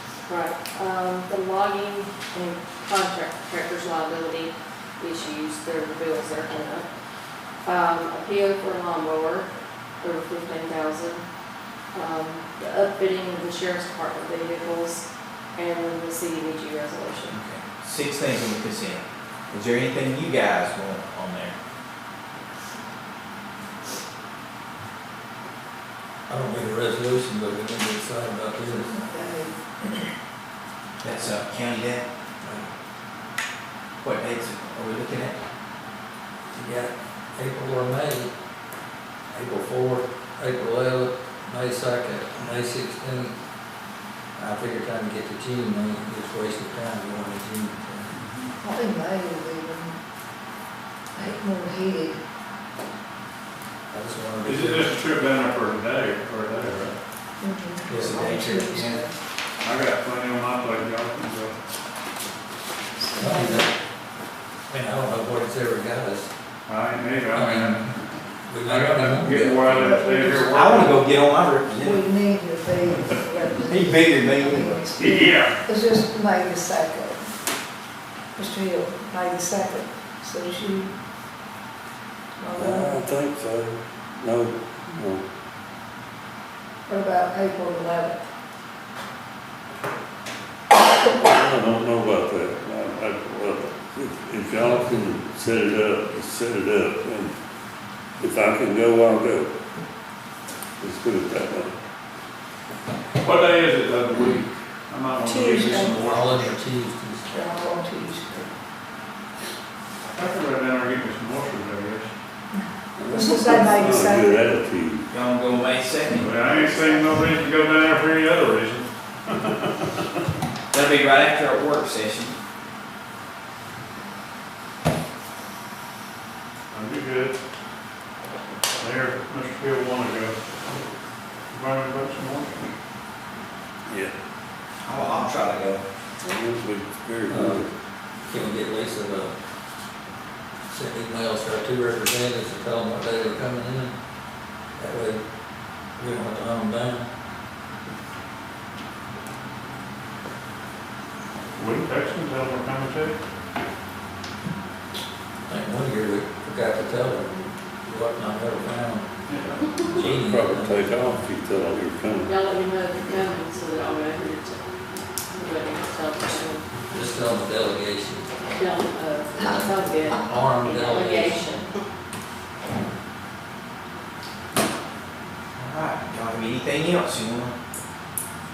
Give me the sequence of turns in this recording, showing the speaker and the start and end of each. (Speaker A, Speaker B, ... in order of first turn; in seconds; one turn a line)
Speaker A: 0.3-6.9
Speaker A: 7.6-9.5
Speaker A: 10.0-11.3
Speaker A: 11.9-17.4
Speaker B: 17.3-21.6
Speaker C: 26.3-29.0
Speaker D: 28.8-30.0
Speaker B: 31.0-32.0
Speaker C: 32.4-32.7
Speaker B: 34.0-35.4
Speaker C: 36.5-38.3
Speaker C: 39.3-43.4
Speaker C: 44.4-48.1
Speaker D: 48.6-50.0
Speaker D: 51.1-52.2
Speaker C: 53.9-55.0
Speaker E: 54.5-57.0
Speaker D: 57.4-59.1
Speaker C: 57.9-58.2
Speaker B: 57.9-59.1
Speaker E: 59.6-61.6
Speaker D: 63.0-63.7
Speaker C: 63.2-63.7
Speaker C: 64.7-66.3
Speaker E: 66.7-67.9
Speaker C: 67.3-67.9
Speaker C: 68.5-70.1
Speaker E: 68.6-70.9
Speaker D: 69.7-70.9
Speaker B: 70.5-72.0
Speaker D: 71.7-77.2
Speaker B: 73.7-74.9
Speaker E: 75.0-75.6
Speaker D: 78.4-80.9
Speaker D: 82.4-83.0
Speaker F: 82.6-85.2
Speaker D: 86.9-88.2
Speaker F: 91.2-97.3
Speaker F: 98.2-99.5
Speaker F: 100.8-101.8
Speaker E: 103.2-106.6
Speaker D: 105.2-106.1
Speaker C: 105.9-107.3
Speaker D: 107.3-108.5
Speaker E: 110.1-112.1
Speaker D: 112.5-114.5
Speaker F: 113.0-115.1
Speaker B: 115.1-117.2
Speaker E: 116.2-119.9
Speaker B: 120.7-122.3
Speaker E: 126.7-127.4
Speaker E: 128.8-130.4
Speaker E: 131.5-132.6
Speaker B: 134.8-135.8
Speaker F: 136.2-137.7
Speaker C: 137.3-137.6
Speaker C: 138.3-139.3
Speaker C: 140.7-143.9
Speaker C: 144.8-145.2
Speaker C: 146.0-147.1
Speaker E: 151.6-153.2
Speaker C: 155.5-159.1
Speaker E: 159.3-159.6
Speaker C: 159.9-161.2
Speaker F: 159.9-162.3
Speaker A: 162.2-164.7
Speaker A: 165.3-166.7
Speaker C: 166.9-168.3
Speaker A: 168.6-171.8
Speaker C: 169.4-171.4
Speaker B: 175.6-177.6